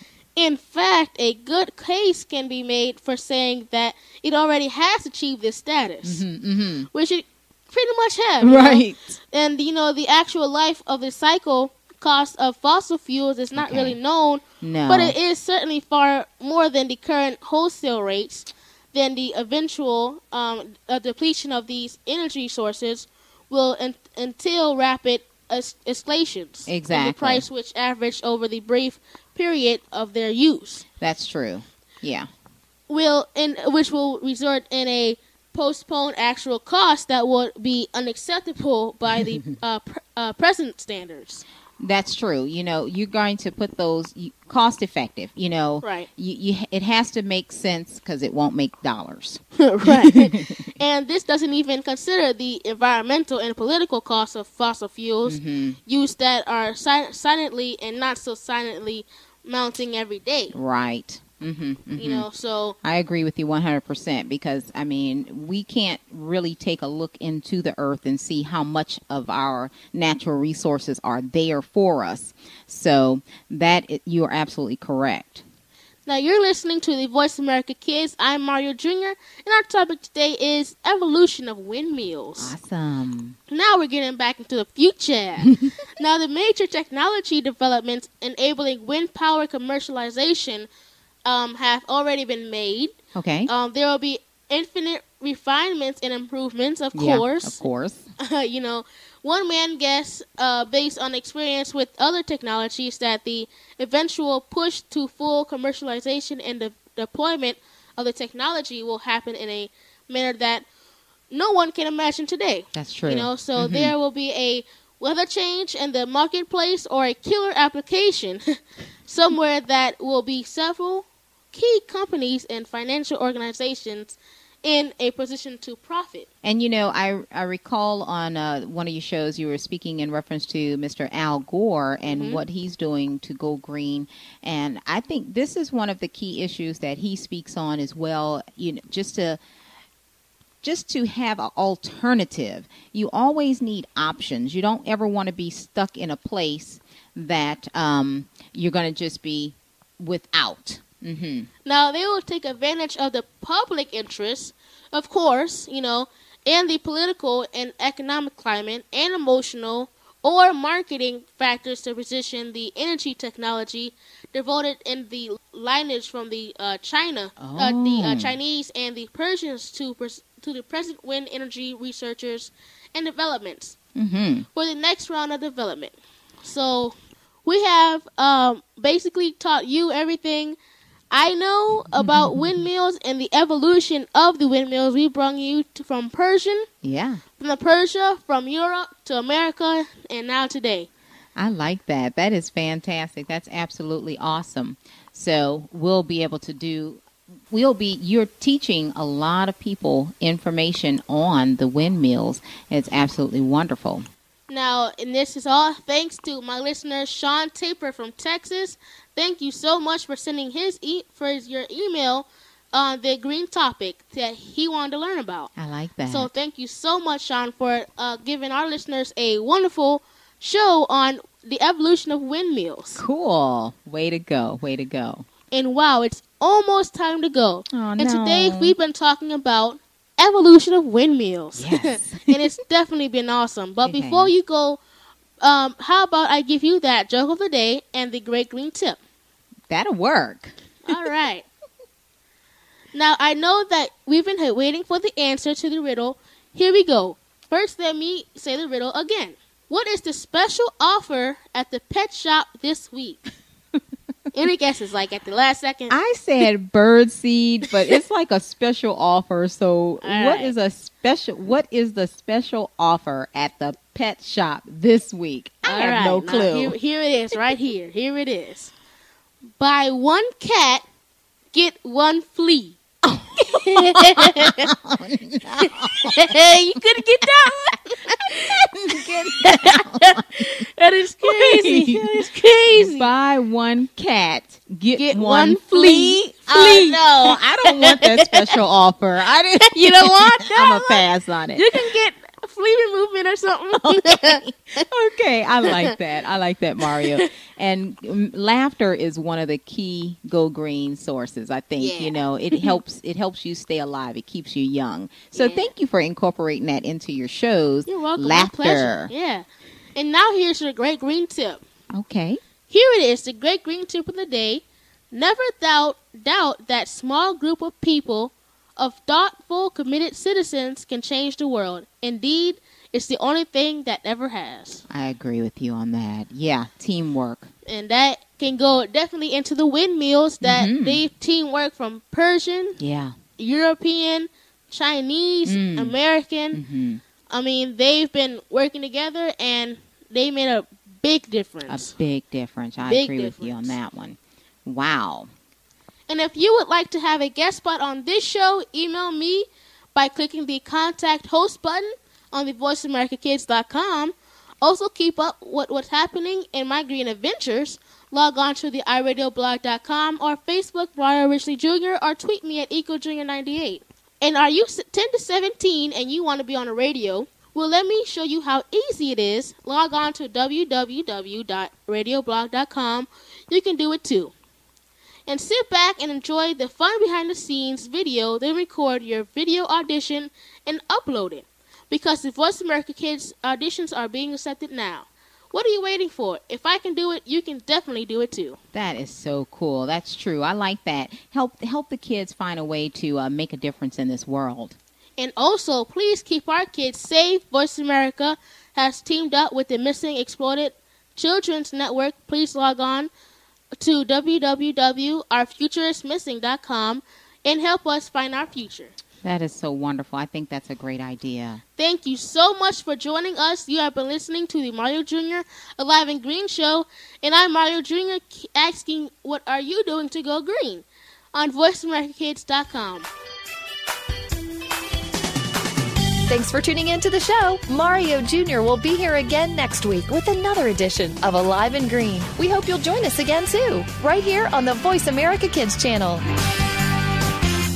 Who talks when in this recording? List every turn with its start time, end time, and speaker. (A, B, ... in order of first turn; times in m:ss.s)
0:00.4-0:06.2 A
0:06.0-0:06.9 B
0:06.9-0:30.8 A
0:08.4-0:09.2 B
0:13.5-0:14.0 B
0:14.6-0:15.2 B
0:26.7-0:27.4 B
0:31.0-0:32.3 B
0:32.9-0:41.4 A
0:41.8-0:50.7 B
0:45.8-0:46.1 A
0:49.6-1:00.5 A
0:55.2-0:55.8 B
1:00.5-1:02.3 B
1:02.0-1:02.8 A
1:02.8-1:15.4 B
1:16.1-1:22.5 A
1:22.4-1:23.4 B
1:23.5-1:30.7 A
1:31.2-1:32.9 A
1:33.1-1:33.5 B
1:33.5-1:37.6 A
1:36.9-1:38.1 B
1:38.2-1:50.6 A
1:51.3-1:58.4 A
1:52.7-1:53.9 B
1:59.1-2:06.3 A
2:06.4-2:19.4 B
2:12.1-2:12.4 A
2:20.6-2:31.5 B
2:31.6-2:53.8 A
2:47.4-2:48.4 B
2:54.0-2:54.5 B
2:54.5-3:00.6 A
3:01.1-3:06.7 A
3:01.9-3:02.6 B
3:06.8-3:07.2 B
3:07.4-3:10.9 A
3:11.4-3:24.0 B
3:24.5-3:35.5 A
3:35.6-3:36.3 B
3:36.1-3:43.0 A
3:43.0-3:45.2 B
3:45.5-3:54.8 A
3:47.7-3:48.8 B
3:51.6-3:52.4 B
3:53.8-3:54.3 B
3:55.4-3:59.0 A
3:59.7-4:01.0 B
4:00.8-4:01.4 A
4:02.9-4:13.3 A
4:14.3-4:16.0 A
4:15.9-4:26.7 B
4:20.0-4:20.5 A
4:25.6-4:28.7 A
4:29.6-4:30.8 A
4:31.5-4:32.8 A
4:33.0-4:36.3 B
4:33.4-4:34.7 A
4:35.6-4:43.1 A
4:38.5-4:40.6 B
4:41.2-4:42.0 B
4:42.8-4:51.8 B
4:45.0-4:48.5 A
4:49.7-4:54.8 A
4:53.8-5:09.1 B
4:55.6-4:55.9 A
4:57.0-4:57.2 A
5:01.8-5:02.8 A
5:05.3-5:05.7 A
5:07.9-5:09.4 A
5:10.0-5:11.6 A
5:11.9-5:12.4 B
5:12.7-5:24.8 A
5:24.9-5:27.5 B
5:27.6-5:32.8 A
5:30.4-5:31.0 B
5:32.8-5:33.2 B
5:33.4-5:36.6 A
5:35.4-5:36.0 B
5:36.5-5:37.0 B
5:37.3-5:41.9 A
5:41.7-5:45.3 B
5:42.8-5:43.7 A
5:46.1-6:14.3 A
6:15.3-6:28.6 A
6:28.7-6:34.8 B
6:35.2-6:43.1 A
6:43.8-6:48.9 A
6:49.2-6:51.6 B
6:51.8-7:03.1 A
7:06.3-7:16.2 C